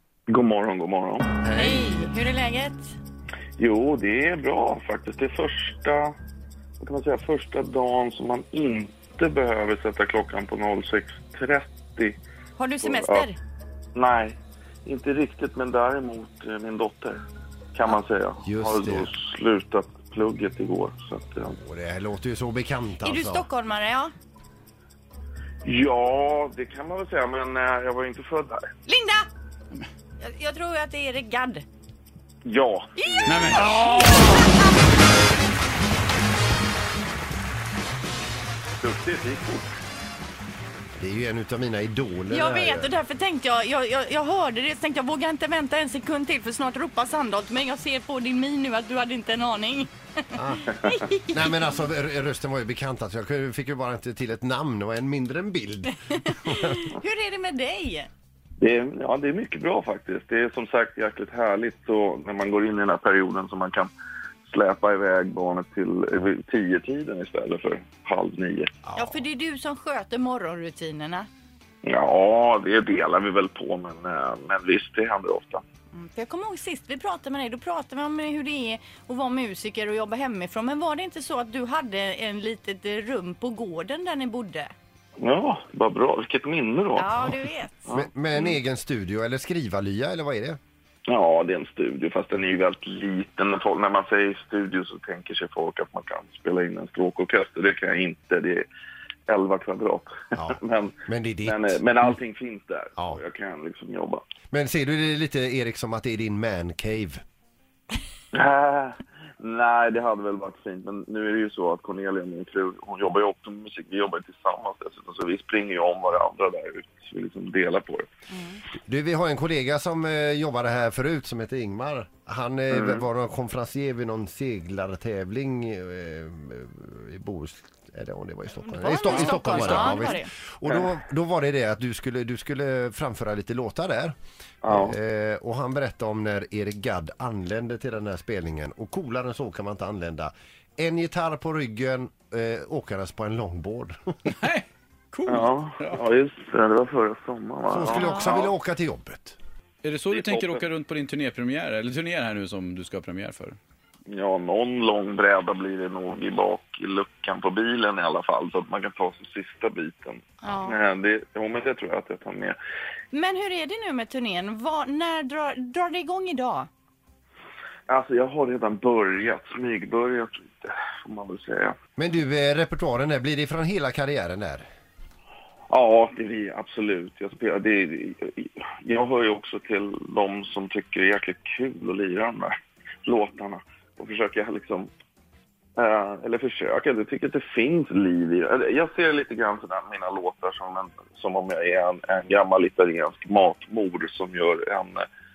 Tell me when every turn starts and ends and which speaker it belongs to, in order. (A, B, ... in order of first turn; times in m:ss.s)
0:00.3-0:01.3 A
0:01.4-0:02.0 B
0:01.5-0:02.9 C
0:03.6-0:06.1 A
0:06.8-0:12.2 A
0:12.6-0:13.4 C
0:12.8-0:13.3 A
0:14.0-0:17.2 A
0:17.7-0:21.6 A
0:18.4-0:19.1 B
0:21.6-0:23.5 B
0:23.0-0:24.1 C
0:25.6-0:28.7 A
0:28.9-0:29.3 C
0:30.2-0:31.6 C
0:32.4-0:33.8 A
0:33.0-0:34.7 C
0:33.3-0:34.3 D
0:38.8-0:39.6 A
0:41.0-0:43.0 B
0:42.3-0:49.9 C
0:50.3-0:50.7 B
0:50.8-0:51.6 C
0:51.3-0:56.9 B
0:56.8-0:58.1 C
0:58.6-1:03.9 A
1:04.4-1:08.8 A
1:08.8-1:09.2 B
1:09.0-1:11.3 C
1:11.8-1:15.6 A
1:15.9-1:24.7 C
1:25.2-1:27.3 A
1:27.0-1:27.7 C
1:27.9-1:30.6 B
1:27.9-1:28.4 A
1:31.1-1:38.7 A
1:39.3-1:44.2 A
1:40.4-1:41.8 B
1:44.5-1:47.2 B
1:48.3-1:58.1 A
1:58.3-1:58.6 C
1:58.9-2:14.2 B
2:02.7-2:03.0 A
2:08.6-2:10.3 C
2:09.1-2:10.0 D
2:14.6-2:15.0 A
2:14.7-2:24.0 B
2:24.3-2:26.0 D
2:25.3-2:28.5 A
2:27.7-2:29.4 B
2:27.9-2:28.3 C
2:29.8-2:33.6 D
2:30.1-2:30.7 A
2:34.1-2:42.6 A
2:40.4-2:40.8 C
2:43.1-2:46.7 C
2:47.9-2:51.8 A
2:52.0-2:54.7 B
2:55.7-3:04.9 A
3:05.8-3:15.1 A